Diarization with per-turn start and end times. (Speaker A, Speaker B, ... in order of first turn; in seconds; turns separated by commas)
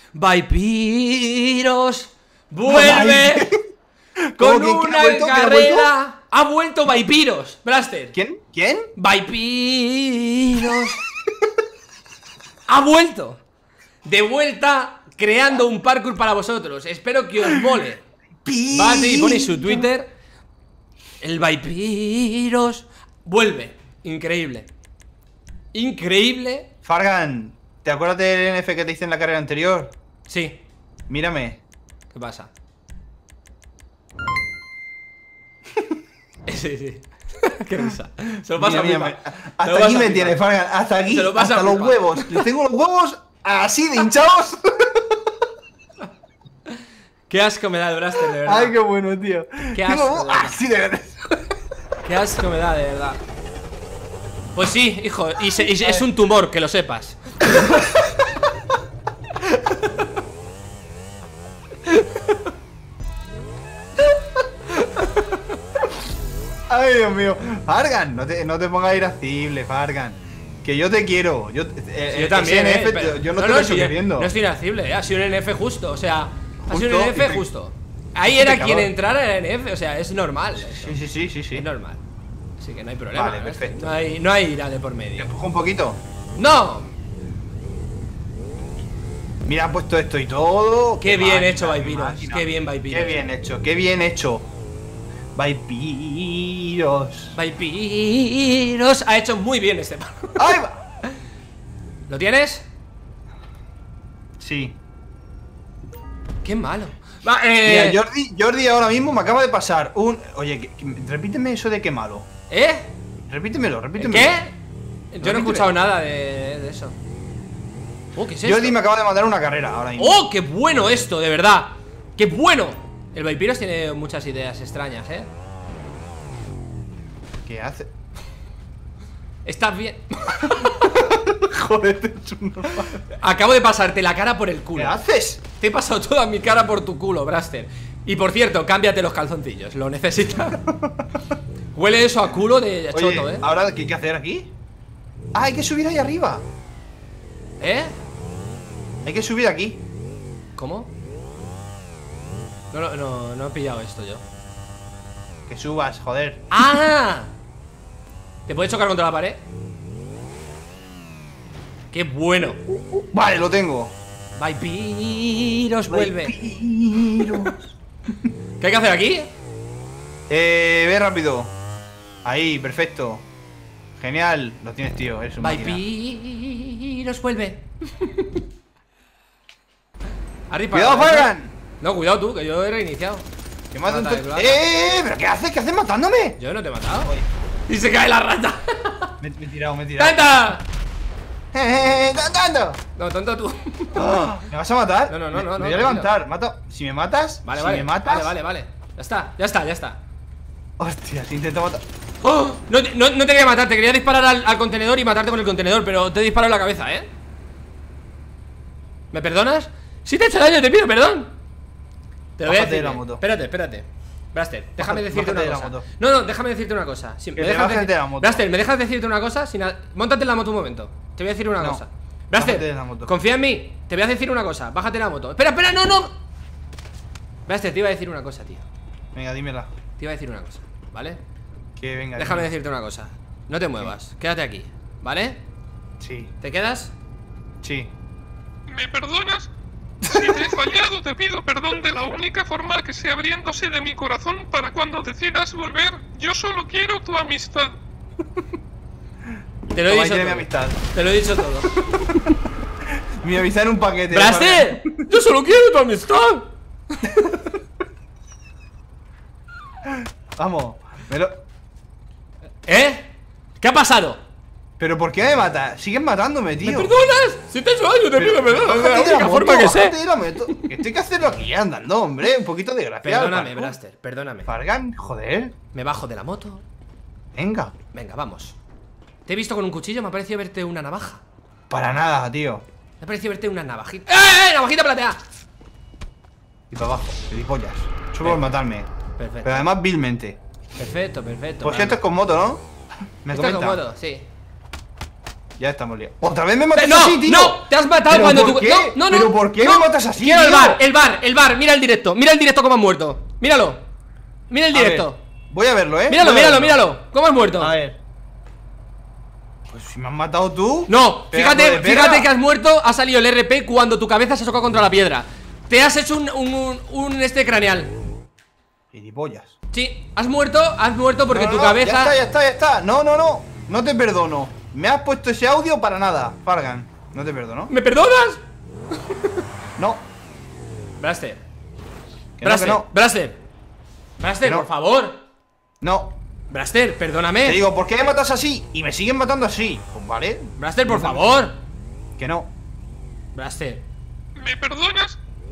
Speaker A: 0.1-3.5, Speaker B: 2.6-3.6, Speaker B: 4.3-5.9, Speaker A: 4.4-8.2, Speaker B: 8.1-8.9, Speaker A: 8.9-11.0, Speaker A: 12.7-13.4, Speaker A: 14.0-18.0, Speaker B: 18.4-19.9, Speaker A: 18.7-20.1, Speaker A: 21.2-24.7, Speaker A: 25.7-26.7, Speaker B: 26.8-29.9, Speaker A: 30.3-30.6, Speaker B: 31.1-31.6, Speaker A: 32.1-32.5, Speaker A: 36.5-40.4, Speaker B: 38.5-45.2, Speaker A: 41.1-42.4, Speaker A: 47.3-48.7, Speaker B: 48.3-51.4, Speaker A: 49.7-50.6, Speaker A: 52.0-53.2, Speaker A: 54.5-57.8, Speaker B: 55.6-56.1, Speaker B: 57.5-58.5, Speaker B: 66.7-74.3, Speaker A: 72.1-81.0, Speaker B: 76.6-77.5, Speaker B: 78.2-78.9, Speaker B: 80.6-81.7, Speaker A: 81.5-82.0, Speaker A: 82.6-85.3, Speaker B: 83.1-83.9, Speaker B: 85.2-86.0, Speaker A: 86.4-86.9, Speaker B: 89.4-94.5, Speaker A: 91.0-93.3, Speaker B: 95.3-97.3, Speaker A: 97.3-100.5, Speaker B: 100.4-100.8, Speaker A: 102.1-102.6, Speaker B: 104.4-104.8, Speaker A: 106.4-108.0, Speaker B: 107.6-112.3, Speaker A: 112.5-112.9, Speaker B: 113.2-114.3, Speaker A: 114.0-114.5, Speaker A: 115.1-116.9, Speaker B: 115.2-115.8, Speaker A: 118.1-118.8, Speaker B: 118.4-120.2, Speaker A: 120.0-125.3, Speaker B: 127.5-127.9, Speaker A: 129.4-131.0, Speaker B: 130.4-133.0, Speaker A: 133.1-135.0, Speaker B: 134.7-135.4, Speaker A: 135.5-140.7, Speaker B: 140.7-141.1, Speaker A: 141.7-143.4, Speaker B: 142.9-144.5, Speaker B: 145.3-146.4, Speaker A: 147.6-147.9, Speaker B: 149.0-149.8, Speaker A: 150.6-150.9, Speaker A: 152.7-154.2, Speaker B: 155.5-156.5, Speaker A: 156.5-157.3, Speaker A: 158.5-159.4, Speaker A: 161.9-162.6, Speaker B: 162.7-163.9, Speaker A: 164.4-166.3, Speaker B: 165.9-167.7, Speaker A: 167.2-167.5, Speaker A: 168.6-169.3, Speaker B: 170.3-171.5, Speaker B: 172.2-173.3, Speaker B: 174.0-175.8, Speaker A: 175.4-178.4, Speaker A: 180.5-183.2, Speaker B: 180.7-181.5, Speaker B: 183.7-186.4, Speaker A: 183.8-184.6, Speaker A: 186.4-187.1, Speaker A: 187.7-189.1, Speaker B: 189.2-190.5, Speaker A: 190.0-190.6, Speaker B: 191.5-192.8, Speaker A: 192.9-194.1, Speaker B: 193.9-198.3, Speaker A: 195.1-196.1, Speaker A: 197.4-200.0, Speaker B: 200.8-201.8, Speaker A: 202.2-207.1, Speaker A: 209.1-211.3, Speaker A: 212.4-226.1, Speaker B: 212.4-213.2, Speaker B: 214.8-215.8, Speaker B: 217.3-218.4, Speaker B: 222.3-223.1, Speaker A: 227.5-228.6, Speaker B: 229.1-229.7, Speaker A: 230.0-231.2, Speaker B: 231.8-232.5, Speaker A: 232.2-235.4, Speaker B: 236.0-236.3, Speaker A: 236.4-236.9, Speaker B: 237.6-237.9, Speaker C: 238.7-239.5, Speaker C: 240.0-247.7, Speaker B: 240.1-240.4, Speaker A: 249.7-251.7, Speaker B: 249.8-250.8, Speaker B: 252.0-252.3, Speaker B: 253.2-255.0, Speaker A: 254.1-257.3, Speaker B: 259.9-261.4, Speaker A: 262.6-264.2, Speaker B: 264.8-266.9, Speaker A: 266.6-270.7, Speaker B: 268.1-273.8, Speaker A: 273.0-274.5, Speaker B: 274.4-275.5, Speaker A: 275.7-276.6, Speaker B: 277.3-277.7, Speaker A: 277.9-278.6, Speaker A: 279.2-281.2, Speaker B: 281.7-282.6, Speaker A: 283.0-285.2, Speaker B: 286.7-288.9, Speaker A: 289.1-289.6, Speaker B: 289.4-290.4, Speaker A: 290.8-292.0, Speaker B: 291.6-292.6, Speaker B: 293.2-293.8, Speaker A: 293.3-294.2, Speaker B: 295.6-300.8, Speaker A: 296.7-303.8, Speaker A: 304.5-305.2, Speaker B: 304.7-306.8, Speaker A: 306.1-307.7, Speaker B: 307.6-308.0, Speaker B: 309.7-312.3, Speaker A: 310.9-317.9, Speaker B: 318.9-319.5, Speaker A: 319.7-322.1, Speaker B: 321.3-327.7, Speaker A: 327.7-328.4, Speaker B: 329.8-330.0, Speaker A: 331.0-331.4, Speaker B: 332.4-332.9, Speaker A: 332.4-333.4, Speaker A: 334.2-335.2, Speaker B: 335.8-336.2, Speaker A: 336.5-337.6, Speaker B: 337.4-341.3, Speaker A: 340.6-341.6, Speaker B: 342.2-342.5, Speaker A: 343.3-343.8, Speaker C: 344.4-345.2